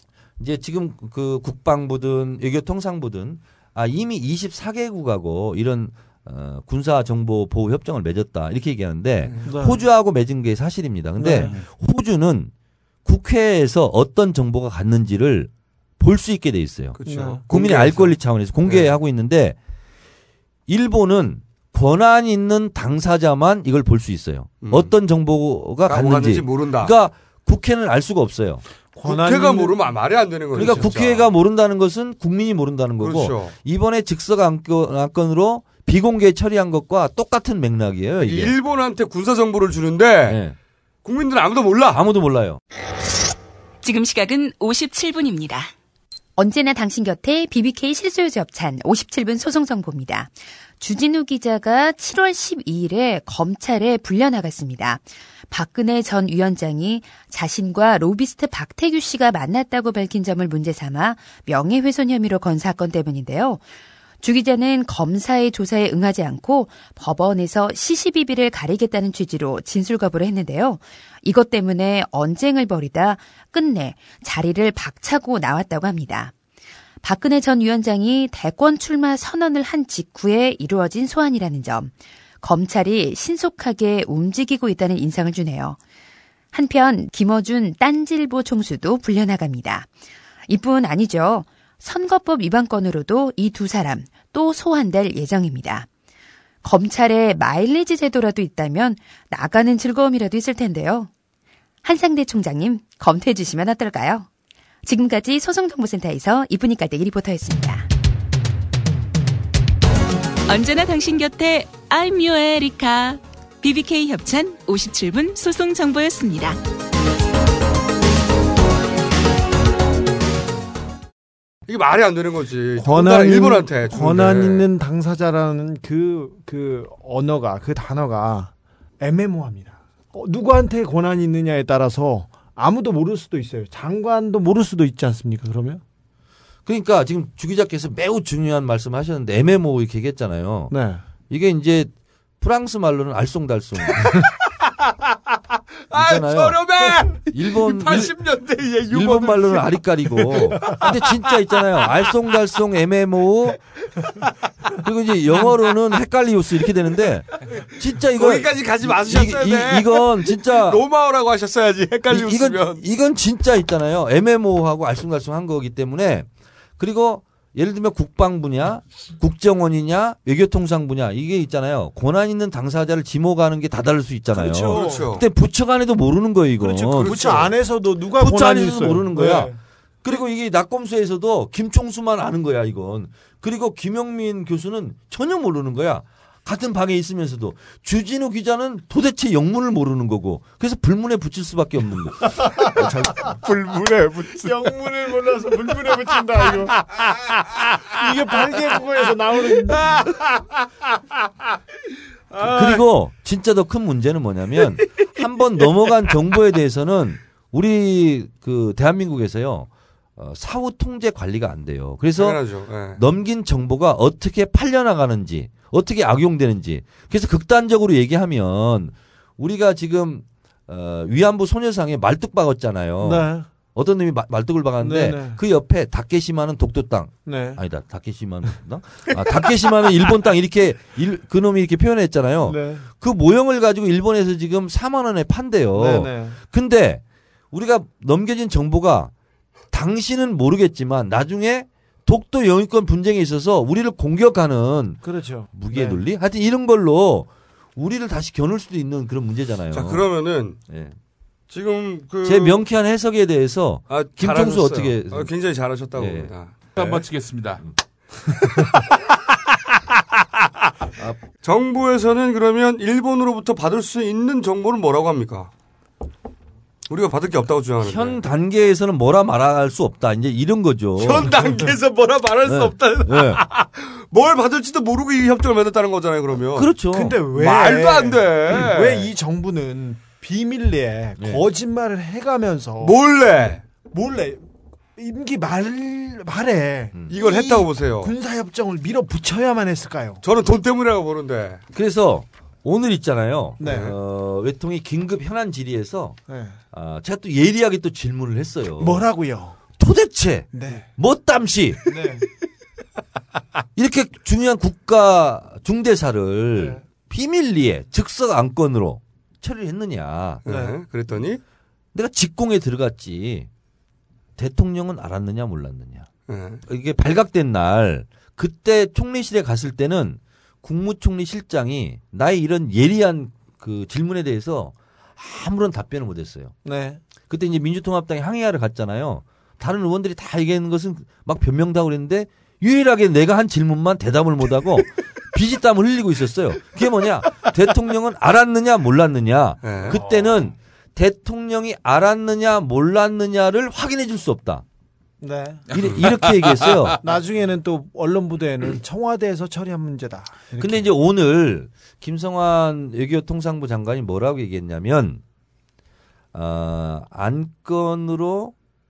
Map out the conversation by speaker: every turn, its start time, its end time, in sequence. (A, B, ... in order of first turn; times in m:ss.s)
0:00.4-0:12.5 A
0:09.4-0:09.8 B
0:11.2-0:11.5 B
0:13.0-0:17.0 A
0:17.0-0:18.9 C
0:17.1-0:17.4 B
0:17.5-0:19.6 A
0:20.7-0:28.6 A
0:24.6-0:24.9 C
0:25.9-0:26.9 C
0:28.9-0:29.8 B
0:29.0-0:31.3 C
0:30.5-0:38.6 A
0:33.0-0:33.6 C
0:38.2-0:40.4 C
0:40.3-0:40.6 A
0:41.0-0:42.0 C
0:41.9-0:42.6 A
0:43.8-0:45.7 D
0:46.4-1:03.6 E
1:04.2-1:16.3 E
1:17.0-1:25.8 E
1:26.5-1:29.9 E
1:30.5-1:35.9 E
1:36.6-1:41.1 E
1:41.8-1:44.3 E
1:44.8-1:47.9 E
1:50.5-1:56.6 D
2:01.7-2:04.7 C
2:02.8-2:15.8 B
2:16.6-2:20.7 A
2:20.7-2:21.0 B
2:21.3-2:24.2 A
2:25.9-2:32.1 C
2:25.9-2:26.6 A
2:27.3-2:28.2 A
2:28.9-2:33.6 A
2:34.8-2:40.8 A
2:38.1-2:42.8 C
2:42.1-2:57.2 A
2:54.4-2:55.0 B
2:54.5-2:55.3 C
2:56.6-2:59.6 B
2:56.9-2:57.6 C
2:58.2-2:59.5 A
3:00.0-3:13.3 A
3:12.4-3:13.4 B
3:13.4-3:14.6 C
3:14.2-3:16.8 B
3:17.9-3:20.1 B
3:19.8-3:20.2 C
3:22.3-3:22.8 C
3:22.4-3:32.4 A
3:32.2-3:33.0 C
3:32.9-3:59.1 A
3:43.0-3:43.5 B
3:44.8-3:45.4 B
3:47.3-3:47.6 B
3:52.4-3:52.9 B
3:55.7-3:56.4 B
3:59.7-4:10.1 A
4:05.0-4:06.0 B
4:09.7-4:10.6 C
4:10.7-4:10.9 A
4:11.5-4:12.6 C
4:12.2-4:15.3 A
4:13.9-4:16.6 C
4:15.9-4:17.0 A
4:16.8-4:17.6 F
4:21.4-4:25.5 C
4:26.9-4:28.2 C
4:27.8-4:31.3 A
4:31.0-4:36.7 C
4:32.4-4:33.4 A
4:36.6-4:37.2 A
4:36.9-4:42.9 B
4:37.3-4:39.1 C
4:42.8-4:43.6 C
4:43.9-4:44.4 B
4:45.0-4:50.2 B
4:47.1-4:48.1 C
4:50.2-4:51.6 C
4:51.7-4:56.2 A
4:53.6-4:53.9 B
4:53.6-4:54.0 C
4:56.3-4:56.6 B
4:56.7-4:59.0 A
4:58.8-4:59.6 B
4:59.8-5:01.9 A
5:00.5-5:00.9 B
5:01.9-5:02.3 B
5:03.8-5:10.4 A
5:10.4-5:11.4 C
5:10.5-5:10.7 B
5:11.9-5:13.5 A
5:14.4-5:16.1 A
5:16.3-5:16.6 C
5:16.7-5:26.5 A
5:26.6-5:27.0 B
5:27.3-5:44.6 A
5:39.6-5:40.0 C
5:39.9-5:40.3 B
5:45.2-5:45.6 B
5:45.7-5:47.0 A
5:45.7-5:47.0 F
5:47.0-5:50.9 B
5:50.6-5:55.2 A
5:56.3-5:58.5 A